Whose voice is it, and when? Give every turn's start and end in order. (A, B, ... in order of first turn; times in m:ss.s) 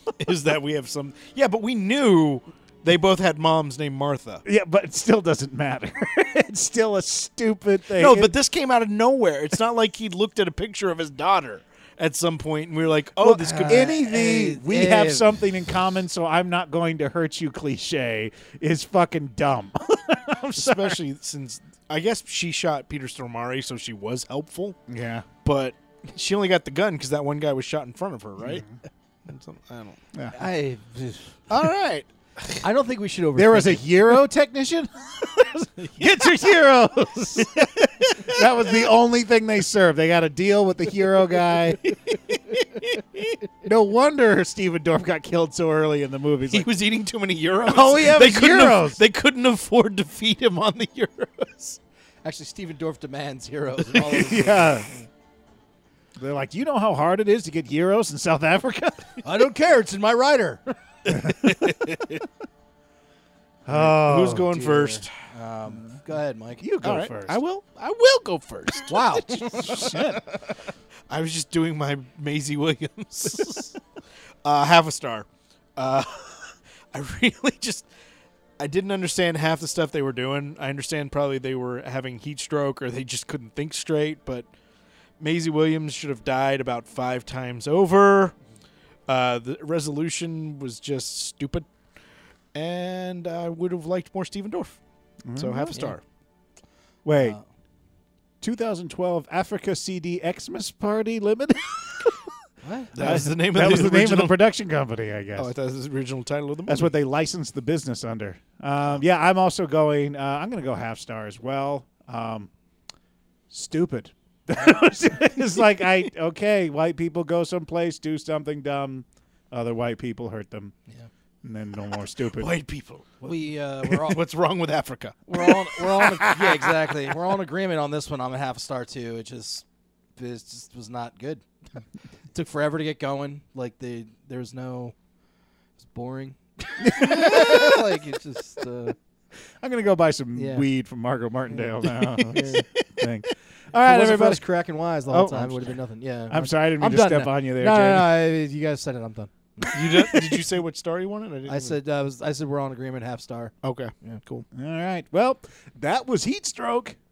0:00.2-0:04.4 A
0:04.4-0:08.3 B
0:07.9-0:14.0 A
0:13.2-0:21.0 B
0:13.5-0:15.5 C
0:20.6-0:24.8 A
0:24.9-0:25.3 B
0:25.4-0:28.6 A
0:28.4-0:28.8 B
0:29.2-0:30.0 A
0:30.3-0:31.4 C
0:31.5-0:32.6 A
0:32.6-0:34.1 C
0:33.3-0:41.9 B
0:41.8-0:43.3 A
0:43.6-0:46.7 B
0:46.5-0:51.8 A
0:47.6-0:49.0 B
0:52.2-0:55.0 C
0:54.1-0:54.9 B
0:56.2-0:59.2 B
0:59.2-1:02.0 C
1:01.1-1:01.5 B
1:03.6-1:04.6 B
1:03.7-1:05.1 A
1:04.3-1:06.6 C
1:06.6-1:07.4 B
1:06.8-1:09.9 A
1:08.9-1:10.0 C
1:09.4-1:10.2 B
1:11.1-1:13.8 A
1:13.3-1:13.6 C
1:14.4-1:17.9 A
1:18.6-1:24.5 A
1:25.2-1:28.4 A
1:29.1-1:31.7 A
1:32.5-1:34.8 A
1:35.2-1:35.8 B
1:35.4-1:36.0 A
1:35.7-1:35.9 C
1:37.0-1:37.4 B
1:37.2-1:37.4 C
1:38.4-1:42.1 B
1:42.6-1:43.0 C
1:42.9-1:44.4 A
1:43.0-1:45.5 B
1:45.4-1:47.0 A
1:46.7-1:52.5 B
1:53.5-2:00.7 B
2:01.4-2:02.5 B
2:02.3-2:05.5 A
2:03.2-2:04.2 C
2:05.3-2:09.6 C
2:10.2-2:11.4 C
2:12.3-2:14.9 C
2:15.8-2:19.0 C
2:16.8-2:17.8 B
2:19.6-2:24.4 B
2:20.3-2:20.6 C
2:21.5-2:22.8 C
2:23.8-2:30.4 C
2:25.1-2:25.8 B
2:26.3-2:28.2 B
2:29.7-2:31.8 A
2:31.5-2:34.2 C
2:33.6-2:34.4 A
2:34.5-2:37.0 B